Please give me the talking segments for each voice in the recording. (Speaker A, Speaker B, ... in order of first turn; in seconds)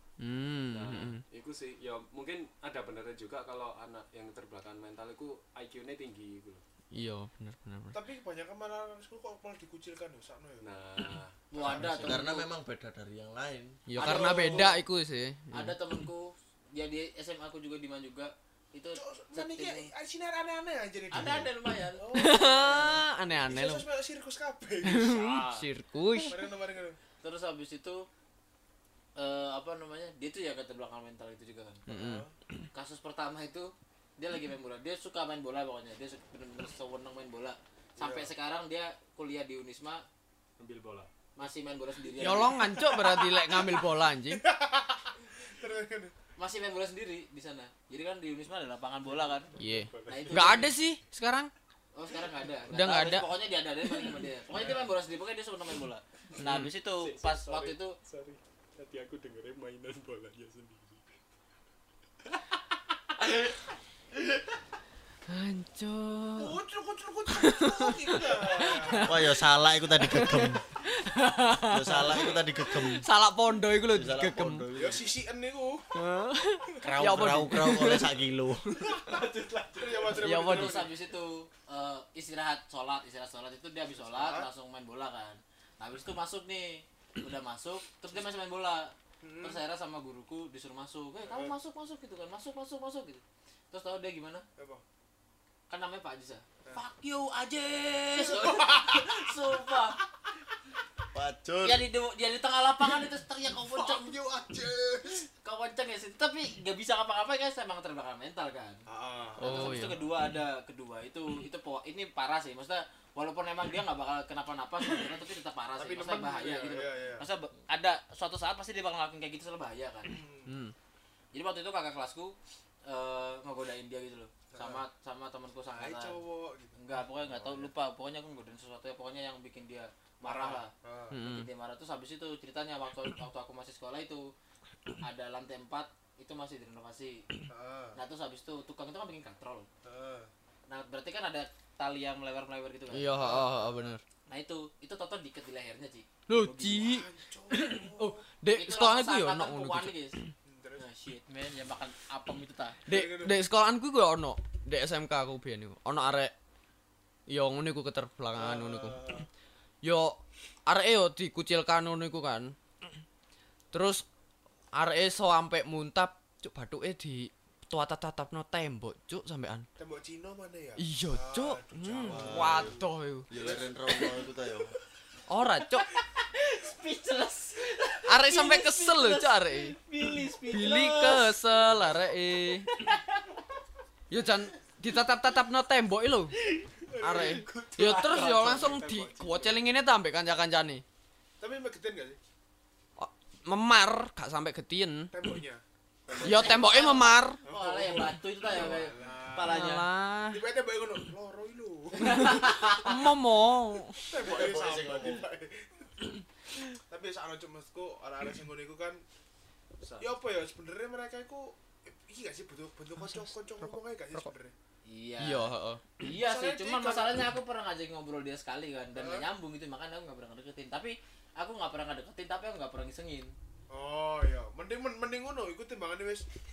Speaker A: 0.2-1.2, 6.9-7.9, 13.9-15.9, 22.1-23.9, 24.8-26.4, 31.9-32.3, 42.2-44.4, 49.6-51.5, 52.7-53.3, 56.4-56.7, 65.3-66.6, 67.3-69.2, 70.0-74.7, 75.9-78.1, 80.2-80.9, 109.4-110.0, 120.5-120.7, 131.1-131.5, 142.9-144.0, 146.3-149.9, 152.9-156.3, 157.3-159.0, 159.8-162.5, 163.7-164.0, 164.8-169.7, 170.8-173.3, 175.3-175.9, 178.1-179.8, 180.4-182.7, 184.1-186.3, 187.0-190.8, 193.0-195.1, 196.2-197.4, 199.4-200.4, 202.1-204.0, 213.0-214.3, 215.2-215.8
Speaker B: 0.7-6.6, 10.6-11.3, 25.1-25.7, 40.6-41.1, 49.5-50.6, 57.0-61.0, 78.9-80.2, 186.9-189.6, 209.8-210.1
Speaker C: 7.9-10.7, 11.5-12.3, 14.0-14.8, 18.9-25.4, 26.2-27.0, 31.9-32.3, 38.0-38.3, 42.6-46.1, 54.6-54.9, 66.4-69.3, 74.7-75.9, 79.0-81.0, 83.9-84.5, 89.2-89.6, 91.2-91.6, 94.6-94.8, 98.1-99.3, 103.6-105.3, 108.9-110.1, 115.8-117.2, 120.1-120.5, 124.5-124.8, 125.7-127.7, 130.2-131.2, 137.5-138.0, 139.8-140.3, 143.1-144.0, 146.6-148.2, 150.4-150.8, 152.9-153.4, 158.3-159.3, 169.8-172.9, 173.4-173.7, 191.4-192.2, 195.1-195.6, 196.2-196.9, 197.4-202.9, 204.0-205.9, 206.9-209.0, 210.0-214.5, 216.1-217.2, 218.9-219.3, 223.7-226.2
Speaker D: 11.5-12.5, 13.9-14.7, 15.5-19.9, 21.1-22.0, 27.2-28.1, 29.2-31.8, 32.7-40.0, 41.4-42.6, 46.4-49.5, 50.1-50.8, 51.9-58.0, 80.4-94.4, 95.7-100.0, 101.6-104.1, 105.4-108.8, 109.4-120.2, 121.3-126.2, 126.8-134.3, 135.0-137.2, 137.9-139.7, 140.7-143.3, 144.3-146.7, 148.5-150.2, 150.8-152.8, 173.4-174.1, 175.8-181.4, 182.7-183.3, 196.1-199.8, 202.0-202.9, 214.9-223.3
Speaker E: 11.6-13.8, 69.0-70.6, 71.7-73.0, 73.9-75.1, 76.8-78.8, 101.1-101.9, 172.1-174.7, 204.2-205.2